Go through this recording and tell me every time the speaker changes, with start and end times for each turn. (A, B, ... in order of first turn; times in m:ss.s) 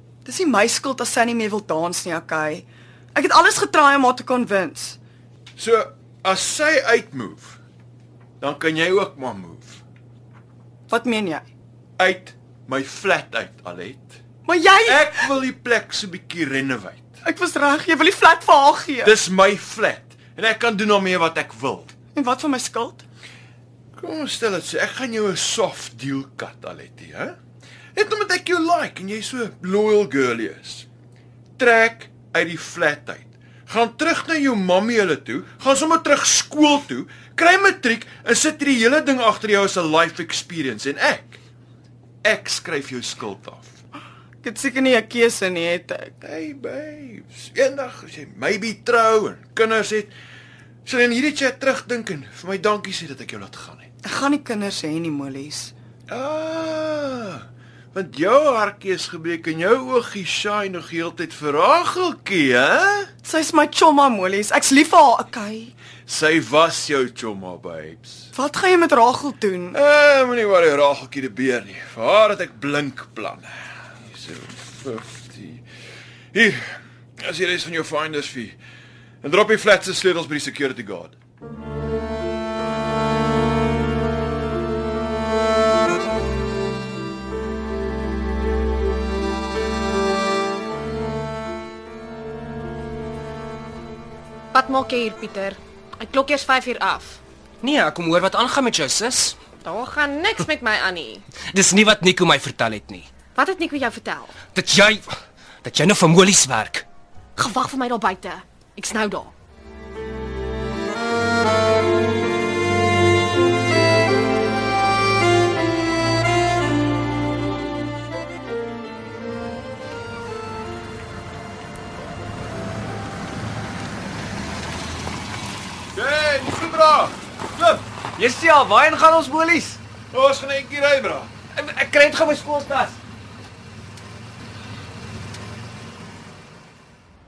0:00.2-0:05.0 A
0:05.6-0:07.6 B
0:08.4-0:09.8 B
0:10.9-0:11.5 A
0:12.0-0:14.2 B
0:14.4-0:15.3 A
0:14.9-0:17.0 B
0:17.2-0:19.1 A
0:19.0-0:21.9 B
0:22.1-0:23.0 A
0:24.0-0:27.3 B
0:27.9-0:30.9 B
0:31.6-0:41.4 B
0:42.2-0:43.8 B
0:44.4-0:46.1 A
0:46.2-0:50.1 B
0:50.8-0:53.9 B
0:54.0-0:55.7 A
0:56.1-1:03.1 B
1:03.2-1:05.7 A
1:06.1-1:08.3 B
1:08.3-1:09.8 A
1:09.7-1:15.6 B
1:16.3-1:18.6 B
1:19.2-1:21.1 B
1:34.5-1:37.2 C
1:37.6-1:39.4 D
1:39.6-1:41.3 C
1:41.5-1:43.1 D
1:43.3-1:44.4 C
1:44.5-1:45.1 D
1:45.6-1:46.9 D
1:47.3-1:49.3 C
2:05.9-2:07.8 B
2:08.2-2:09.8 E
2:10.1-2:11.3 B
2:11.5-2:13.0 E